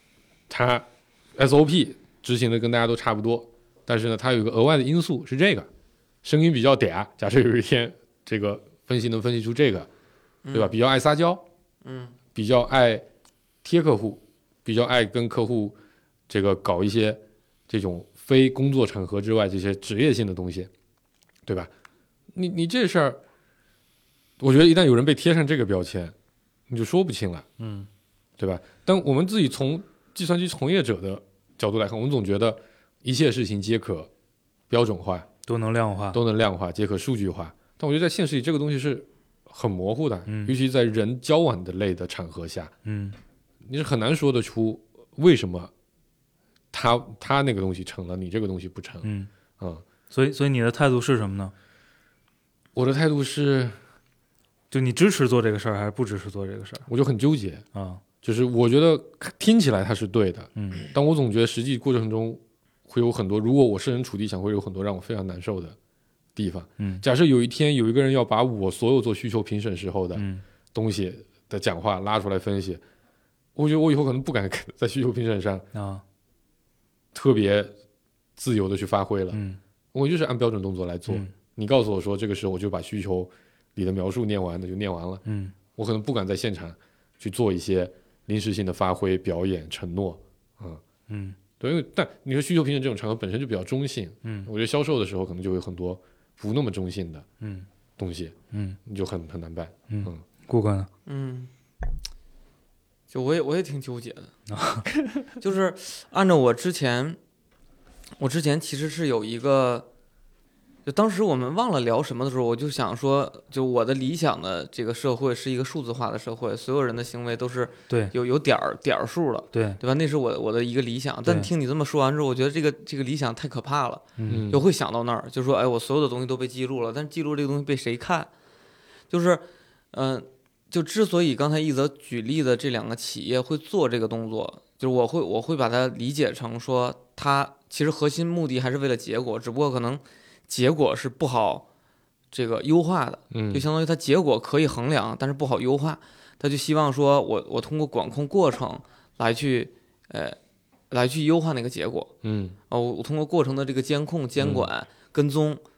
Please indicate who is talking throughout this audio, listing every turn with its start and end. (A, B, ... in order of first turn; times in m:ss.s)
0:00.5-0:05.7 A
0:06.2-0:09.9 A
0:10.4-0:10.7 B
0:10.5-0:11.4 A
0:11.8-0:12.2 B
0:12.3-0:13.1 A
0:13.6-0:15.8 A
0:16.3-0:20.7 A
0:21.4-0:21.7 A
0:22.3-0:23.2 A
0:24.4-0:26.2 A
0:26.7-0:27.5 A
0:27.6-0:27.9 C
0:28.4-0:34.1 A
0:34.7-0:35.3 A
0:35.5-0:36.2 C
0:36.1-0:42.7 A
0:40.3-0:40.5 C
0:42.8-0:43.2 C
0:43.6-0:45.7 A
0:46.7-0:49.8 A
0:49.0-0:49.3 C
0:50.1-0:51.5 C
0:52.8-0:53.8 A
0:54.7-0:56.9 C
0:56.9-0:57.6 A
0:57.7-0:58.0 C
0:58.2-1:05.8 A
1:00.6-1:00.9 C
1:06.4-1:12.8 A
1:10.2-1:10.4 C
1:13.6-1:15.7 A
1:15.7-1:16.0 C
1:17.1-1:17.7 A
1:18.4-1:19.4 A
1:19.3-1:19.6 C
1:19.9-1:25.2 A
1:25.2-1:25.5 C
1:25.8-1:30.8 A
1:31.1-1:31.4 C
1:31.6-1:37.3 A
1:34.2-1:34.5 C
1:37.4-1:37.7 C
1:38.0-1:40.2 A
1:38.5-1:38.8 C
1:39.9-1:40.9 C
1:41.1-1:41.5 B
1:43.1-1:44.3 B
1:44.5-1:44.9 C
1:45.4-1:47.2 B
1:48.2-1:49.9 B
1:50.9-2:08.3 B
1:59.5-1:59.8 C
2:04.2-2:04.5 C
2:04.3-2:04.6 A
2:09.1-2:21.7 B
2:22.3-2:30.4 B
2:23.3-2:23.7 A
2:30.9-2:32.1 B
2:32.2-2:32.6 A
2:32.7-2:35.6 B
2:34.4-2:34.7 A